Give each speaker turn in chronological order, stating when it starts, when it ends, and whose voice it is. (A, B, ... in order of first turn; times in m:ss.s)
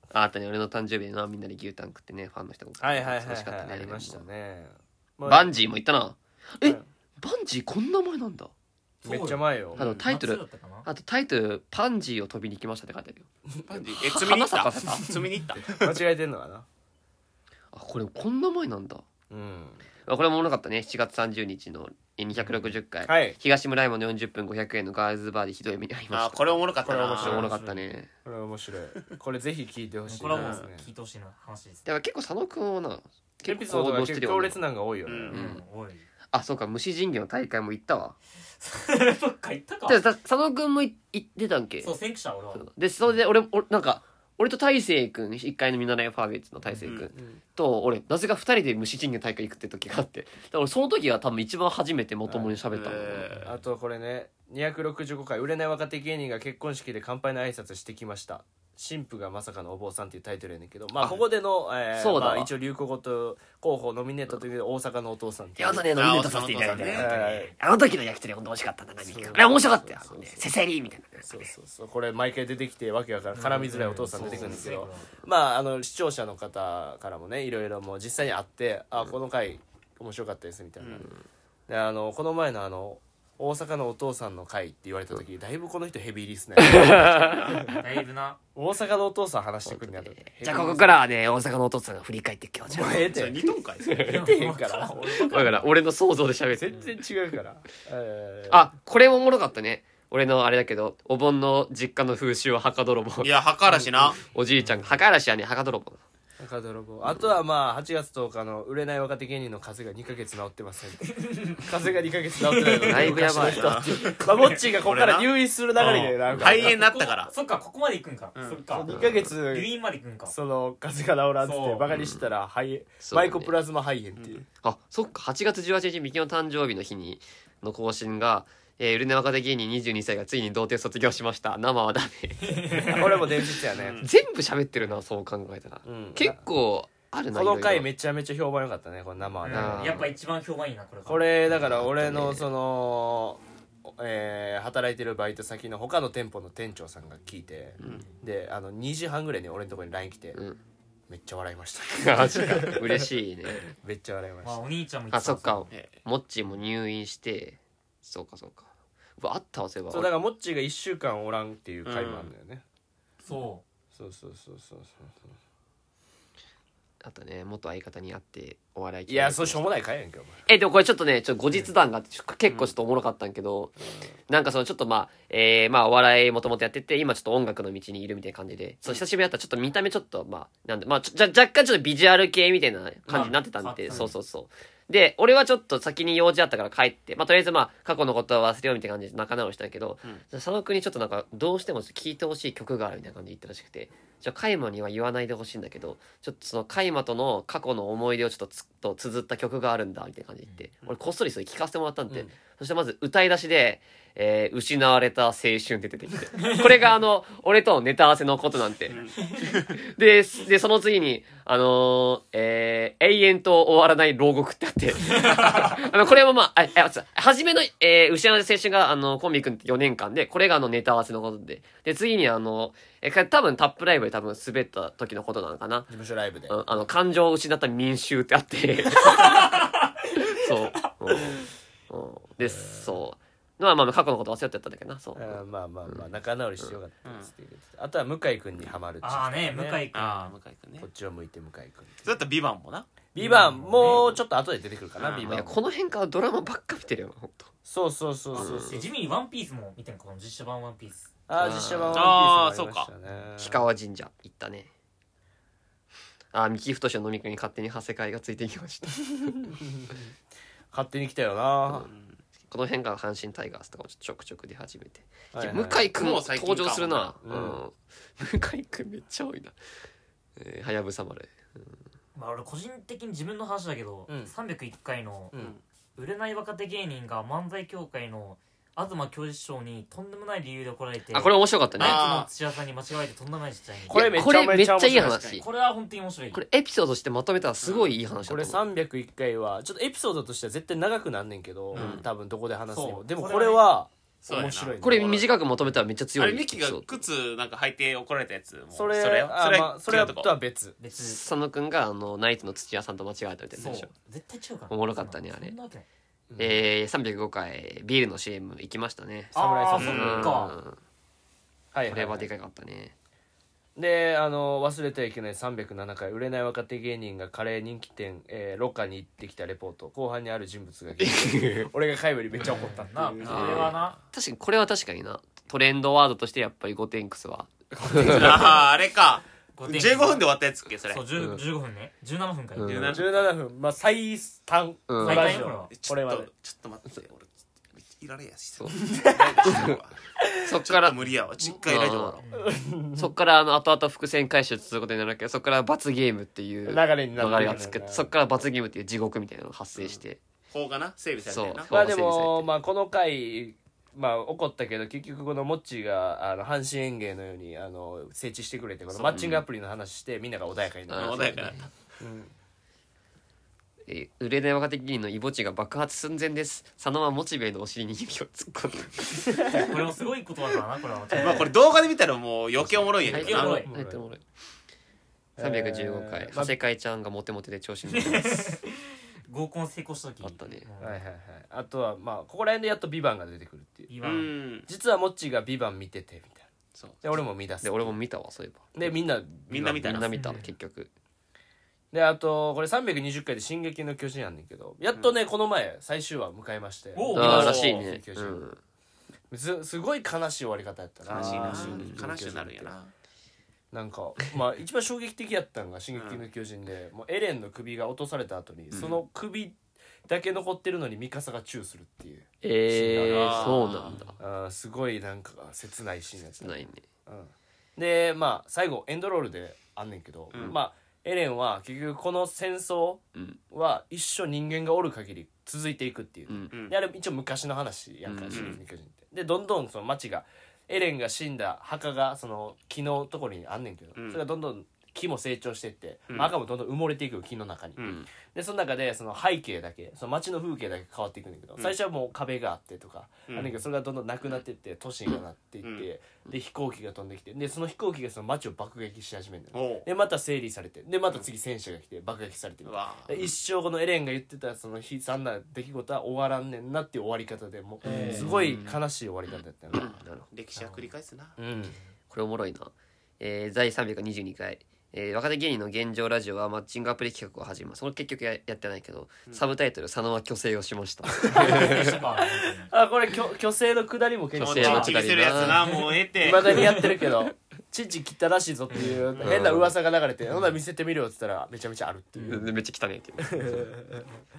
0:00.1-0:04.2 A
0:02.8-0:05.6 B
0:05.2-0:08.5 A
0:09.0-0:10.9 C
0:09.0-0:09.8 B
0:09.8-0:10.0 D
0:09.8-0:13.3 A
0:13.7-0:16.0 D
0:14.0-0:15.1 A
0:15.6-0:16.6 B
0:17.7-0:19.0 A
0:19.3-0:19.8 B
0:20.0-0:28.1 A
0:22.4-0:22.6 C
0:23.0-0:23.4 B
0:26.1-0:27.5 D
0:26.9-0:27.9 C
0:27.1-0:27.4 B
0:28.2-0:30.9 B
0:30.1-0:31.8 C
0:30.3-0:30.6 D
0:31.8-0:34.6 A
0:33.4-0:35.4 B
0:35.0-0:35.4 D
0:35.3-0:36.1 C
0:35.3-0:35.6 A
0:36.3-0:38.1 A
0:38.6-0:40.0 C
0:39.9-0:41.9 A
0:41.8-0:42.6 C
0:42.5-0:53.3 A
0:46.8-0:47.1 D
0:47.1-0:47.4 B
0:52.3-0:52.6 B
0:52.7-0:53.5 D
0:53.4-1:05.9 B
1:02.0-1:02.5 A
1:05.6-1:11.4 A
1:05.9-1:07.1 D
1:06.8-1:07.5 B
1:09.0-1:10.4 B
1:11.2-1:21.1 B
1:13.3-1:15.1 C
1:20.8-1:21.1 D
1:21.7-1:27.8 B
1:26.6-1:27.7 A
1:27.7-1:28.4 C
1:28.5-1:31.0 B
1:29.6-1:33.3 A
1:32.7-1:35.6 B
1:33.1-1:34.1 D
1:33.8-1:34.1 A
1:34.0-1:35.7 C
1:35.3-1:36.9 A
1:36.6-1:38.7 B
1:38.5-1:43.3 A
1:43.2-1:44.2 D
1:44.2-1:46.0 A
1:44.6-1:44.9 C
1:46.4-1:56.8 B
1:51.1-1:51.6 C
1:52.4-1:54.6 C
1:52.8-1:54.1 A
1:53.4-1:54.2 D
1:54.7-1:57.3 D
1:55.8-2:00.3 C
1:58.4-1:58.6 D
1:58.7-1:59.7 B
1:58.9-1:59.3 A
2:00.2-2:04.4 B
2:01.4-2:01.8 C
2:01.9-2:02.2 A
2:03.0-2:03.5 A
2:04.2-2:04.4 D
2:04.6-2:13.3 A
2:12.4-2:13.5 C
2:12.8-2:14.0 B
2:13.7-2:14.1 D
2:14.0-2:17.9 A
2:15.8-2:16.4 B
2:17.3-2:20.1 B
2:19.4-2:21.3 C
2:19.5-2:20.1 A
2:21.0-2:30.4 B
2:21.5-2:22.5 A
2:30.3-2:30.6 A
2:31.1-2:33.1 B
2:31.9-2:33.7 A
2:33.6-2:34.6 B
2:34.4-2:35.7 C
2:35.1-2:40.1 A
2:39.9-2:42.6 B
2:41.8-2:42.3 D
2:43.2-2:43.6 C
2:43.9-2:45.4 B
2:47.0-2:49.7 A
2:49.1-2:50.4 B
2:50.5-2:53.7 A
2:52.5-2:52.7 D
2:53.8-2:54.1 B
2:54.3-3:29.1 A
3:03.1-3:03.4 B
3:03.1-3:04.1 C
3:26.4-3:26.7 C
3:28.9-3:29.8 D
3:29.7-3:45.9 A
3:35.1-3:35.7 C
3:45.9-3:46.6 B
3:46.5-3:49.6 A
3:49.0-3:50.4 C
3:50.2-3:56.0 A
3:52.6-3:52.9 B
3:55.2-3:59.8 B
3:57.0-3:57.3 D
3:59.0-4:00.3 C
3:59.9-4:00.9 D
4:00.8-4:02.1 B
4:02.0-4:02.9 D
4:03.1-4:05.6 B
4:03.2-4:04.2 C
4:05.0-4:05.3 D
4:05.2-4:07.5 A
4:07.6-4:08.9 B
4:08.3-4:11.1 C
4:08.3-4:08.7 A
4:11.3-4:13.6 B
4:11.3-4:12.1 A
4:11.9-4:12.9 D
4:13.4-4:14.7 A
4:16.3-4:19.3 A
4:19.2-4:20.0 B
4:20.7-4:21.9 B
4:21.9-4:22.2 D
4:22.5-4:29.5 A
4:25.3-4:25.9 B
4:25.9-4:27.2 D
4:27.2-4:27.6 B
4:30.4-4:31.8 A
4:32.1-4:35.3 C
4:34.1-4:34.3 B
4:36.0-4:44.2 C
4:41.1-4:42.0 A
4:41.8-4:42.3 D
4:43.9-4:45.3 B
4:43.9-4:45.4 A
4:44.9-4:45.4 D
4:45.4-4:46.4 C
4:46.3-4:48.6 A
4:47.6-4:47.9 D
4:48.3-4:55.3 B
4:51.7-4:52.0 D
4:51.8-4:52.0 A
4:52.7-4:53.7 C
4:54.2-4:55.2 D
4:54.8-4:57.0 A
4:56.2-5:00.3 D
4:58.7-5:00.8 B
5:00.8-5:01.2 C
5:00.9-5:03.9 A
5:03.6-5:05.8 C
5:04.7-5:05.5 A
5:06.3-5:06.6 B
5:06.4-5:10.8 A
5:09.3-5:10.5 B
5:09.3-5:10.6 C
5:11.7-5:12.3 B
5:11.9-5:12.9 A
5:13.8-5:23.7 B
5:21.0-5:21.7 A
5:22.5-5:24.0 C
5:23.2-5:23.8 D
5:23.3-5:28.5 A
5:27.8-5:31.0 D
5:29.5-5:30.2 C
5:30.9-5:32.9 C
5:31.2-5:31.4 A
5:32.6-5:33.0 A
5:32.6-5:33.3 D
5:32.9-5:36.3 B
5:34.9-5:35.4 A
5:35.0-5:35.7 C
5:35.7-5:42.2 D
5:38.7-5:39.7 B
5:39.4-5:39.8 A
5:40.4-5:41.0 A
5:41.6-5:42.2 A
5:42.2-5:42.5 C
5:42.3-5:43.1 B
5:43.0-5:50.2 A
5:46.6-5:48.1 B
5:49.8-5:51.7 D
5:51.2-5:52.5 A
5:51.7-6:01.3 B
5:58.9-5:59.3 D
5:59.1-5:59.4 A
6:00.9-6:01.6 A
6:00.9-6:01.7 D
6:02.0-6:02.3 B
6:03.9-6:09.6 A
6:09.5-6:11.5 C
6:11.1-6:13.7 D
6:12.6-6:14.0 B
6:13.0-6:14.2 A
6:13.1-6:13.7 C
6:15.4-6:16.5 B
6:15.4-6:18.5 A
6:17.9-6:21.0 C
6:20.2-6:20.7 A
6:20.8-6:23.9 B
6:23.9-6:24.3 C
6:24.0-6:24.7 D
6:24.7-6:26.5 B
6:26.7-6:27.0 D
6:27.0-6:27.9 B
6:27.6-6:28.9 A
6:28.7-6:30.1 B
6:29.5-6:30.2 D
6:29.8-6:30.9 A
6:30.1-6:30.5 C
6:31.9-6:38.5 B
6:36.9-6:37.6 C
6:37.1-6:38.6 A
6:37.2-6:37.8 D
6:39.3-6:42.7 B
6:41.1-6:42.9 D
6:41.1-6:42.0 A
6:43.7-7:40.0 B
6:45.9-6:46.2 D
6:48.7-6:49.0 A
6:52.4-6:54.2 A
6:53.0-6:54.1 D
6:56.4-6:56.8 A
7:06.3-7:06.5 A
7:08.0-7:08.6 A
7:08.3-7:08.6 D
7:14.0-7:14.2 D
7:23.3-7:23.6 D
7:29.5-7:29.9 D
7:32.6-7:33.3 D
7:37.8-7:38.3 C
7:37.8-7:38.8 A
7:39.7-7:40.3 A
7:40.3-7:41.4 D
7:40.6-7:40.9 C
7:41.4-7:41.8 B
7:41.7-7:41.9 C
7:42.1-7:52.0 A
7:51.2-7:55.0 B
7:51.2-7:52.7 C
7:54.4-7:55.8 A
7:54.4-7:56.8 D
7:54.6-7:55.8 C
7:56.1-8:02.5 B
7:56.4-7:57.1 C
7:58.7-7:59.1 C
7:58.8-7:59.8 A
7:59.1-7:59.5 D
8:02.1-8:02.5 C
8:02.2-8:03.7 A
8:03.2-8:04.1 B